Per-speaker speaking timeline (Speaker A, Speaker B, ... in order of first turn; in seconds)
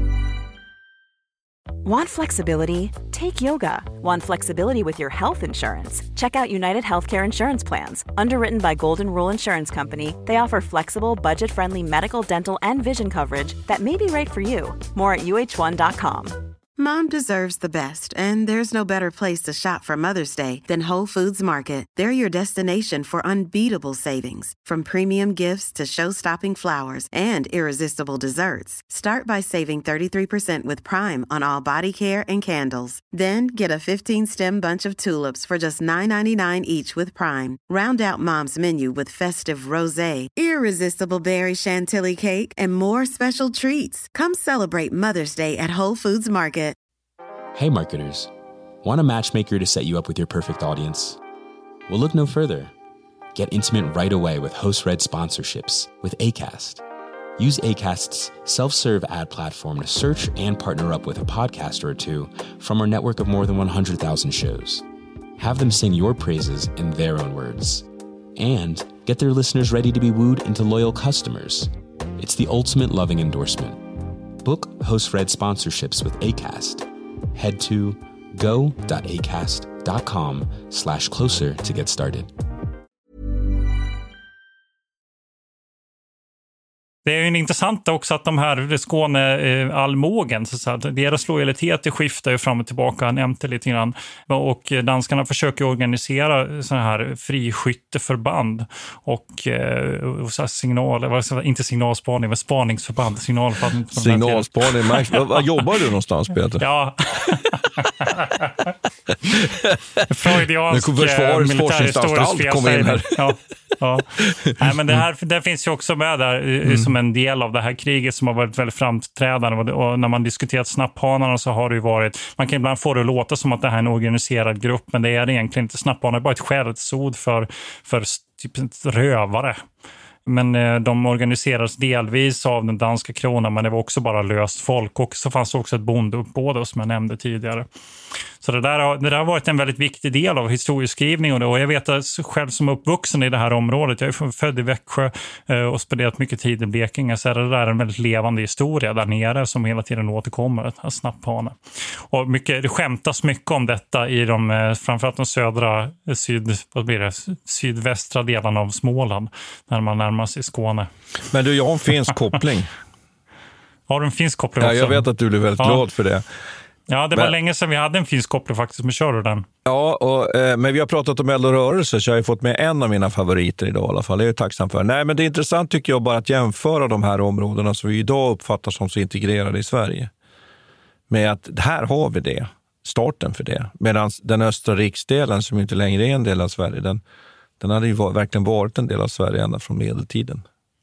Speaker A: 1.8-16.4
Speaker B: 16.8-46.8
Speaker C: 47.5-48.3, 48.8-51.2, 51.9-52.7, 53.3-56.8, 57.4-64.8, 65.4-73.9, 74.4-82.3
Speaker D: 87.0-105.6, 106.6-108.7, 110.1-129.6, 130.2-137.7, 138.4-160.9, 163.9-165.0, 166.9-169.4
Speaker E: 103.9-106.6, 109.2-113.3, 114.2-115.0, 116.6-116.9, 161.3-162.7, 164.6-166.2, 169.6-180.1, 181.1-187.0, 187.6-190.4